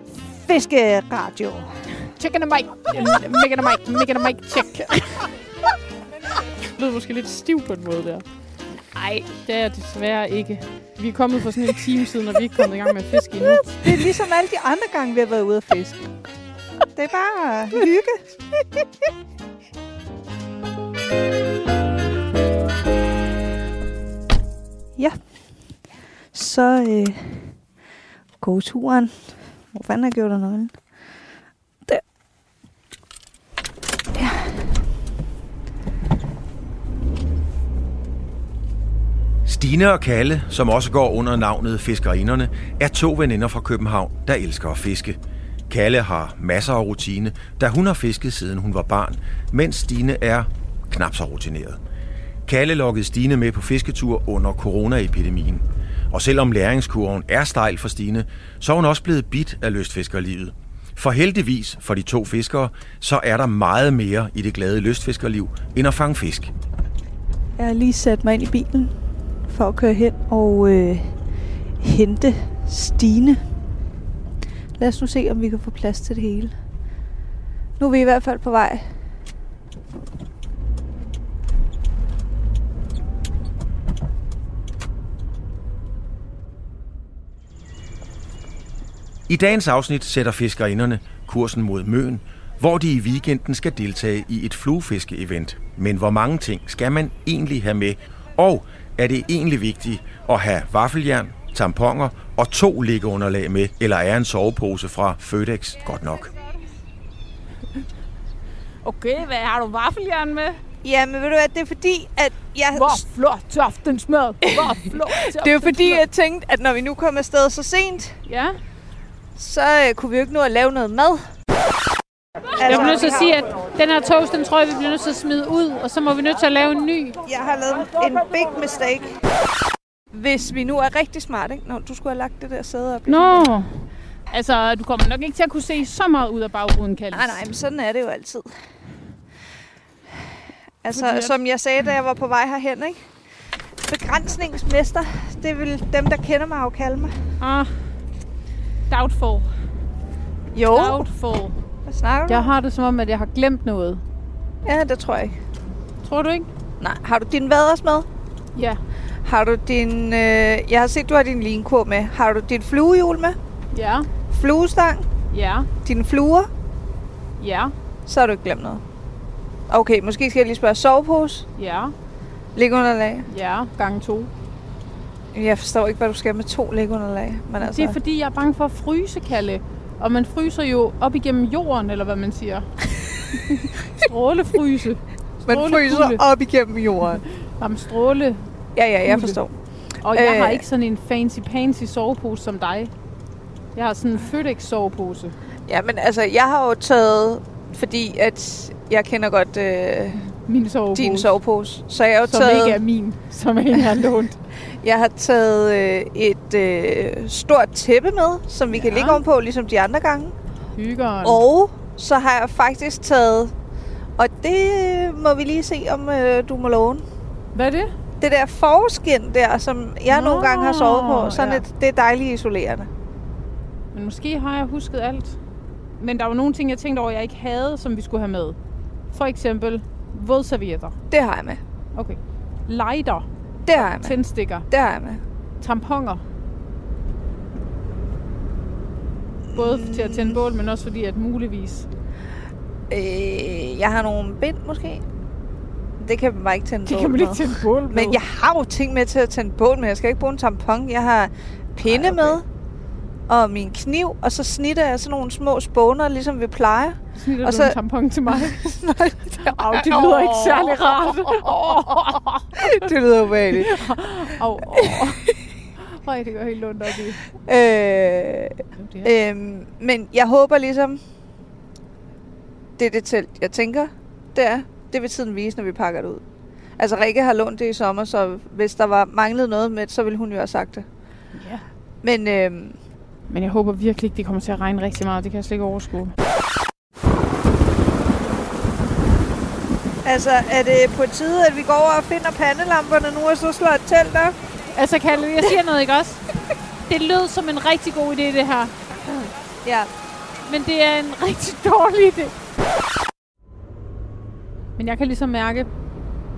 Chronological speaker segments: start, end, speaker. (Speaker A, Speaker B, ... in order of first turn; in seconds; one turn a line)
Speaker A: 0.3-1.7
Speaker B: 2.2-5.2
Speaker B: 6.8-8.2
Speaker A: 8.9-9.3
Speaker B: 9.4-14.1
Speaker A: 13.4-16.0
Speaker A: 16.9-18.2
Speaker A: 26.3-27.5
Speaker A: 28.4-30.8
Speaker A: 34.1-34.6
Speaker C: 39.5-45.2
Speaker C: 45.7-51.8
Speaker C: 52.5-66.5
Speaker A: 67.6-68.9
Speaker A: 69.5-71.2
Speaker A: 71.8-73.4
Speaker A: 74.8-76.5
Speaker A: 77.8-78.9
Speaker C: 89.3-106.3
Speaker B: 108.8-110.6
Speaker A: 110.8-113.0
Speaker B: 112.7-116.0
Speaker A: 115.4-118.2
Speaker B: 118.3-118.6
Speaker A: 119.4-121.3
Speaker A: 122.6-123.3
Speaker B: 122.7-127.2
Speaker A: 127.2-129.2
Speaker A: 130.1-133.5
Speaker B: 133.1-137.4
Speaker A: 137.1-138.5
Speaker A: 140.8-143.0
Speaker B: 140.9-141.3
Speaker A: 143.9-147.1
Speaker B: 147.4-147.8
Speaker B: 148.9-149.5
Speaker A: 150.5-151.1
Speaker B: 150.7-151.6
Speaker A: 151.9-152.5
Speaker B: 152.3-154.0
Speaker A: 154.7-155.4
Speaker B: 156.0-156.5
Speaker A: 156.8-158.1
Speaker A: 159.2-163.4
Speaker B: 163.7-164.1
Speaker A: 164.3-165.1
Speaker B: 165.3-165.7
Speaker A: 165.8-166.5
Speaker B: 167.4-167.7
Speaker A: 168.1-168.8
Speaker A: 169.7-171.5
Speaker B: 171.6-171.9
Speaker A: 172.6-173.3
Speaker B: 173.3-174.3
Speaker A: 175.3-178.0
Speaker B: 177.6-182.7
Speaker B: 183.4-186.2
Speaker A: 185.5-187.2
Speaker B: 187.4-188.4
Speaker A: 188.8-189.5
Speaker B: 189.1-189.4
Speaker B: 190.0-192.9
Speaker A: 190.1-190.6
Speaker B: 193.8-195.3
Speaker A: 195.7-200.2
Speaker B: 200.2-201.3
Speaker A: 200.9-202.8
Speaker B: 202.3-204.4
Speaker A: 204.8-210.3
Speaker B: 208.7-209.2
Speaker B: 210.8-211.4
Speaker A: 211.2-213.5
Speaker A: 214.2-217.0
Speaker B: 217.5-217.9
Speaker A: 218.2-222.9
Speaker B: 220.1-221.6
Speaker B: 223.9-225.4
Speaker B: 226.0-228.6
Speaker B: 229.1-231.0
Speaker A: 231.1-231.6
Speaker B: 231.9-234.7
Speaker A: 233.7-234.2
Speaker A: 234.7-235.2
Speaker B: 235.6-236.2
Speaker A: 239.5-240.4
Speaker B: 239.5-241.9
Speaker A: 242.9-245.0
Speaker A: 246.0-252.4
Speaker B: 246.9-248.2
Speaker B: 251.8-252.4
Speaker A: 253.3-257.8
Speaker B: 257.2-258.8
Speaker A: 258.3-263.9
Speaker B: 259.4-262.9
Speaker B: 263.6-265.2
Speaker A: 264.7-265.3
Speaker B: 265.8-267.2
Speaker A: 267.4-271.0
Speaker B: 268.8-269.1
Speaker A: 272.8-276.2
Speaker A: 276.8-280.9
Speaker B: 281.4-281.6
Speaker A: 282.0-282.8
Speaker B: 283.3-286.1
Speaker A: 290.1-294.4
Speaker B: 294.7-296.2
Speaker B: 296.9-298.8
Speaker A: 299.6-299.9
Speaker B: 300.4-302.3
Speaker B: 304.8-305.7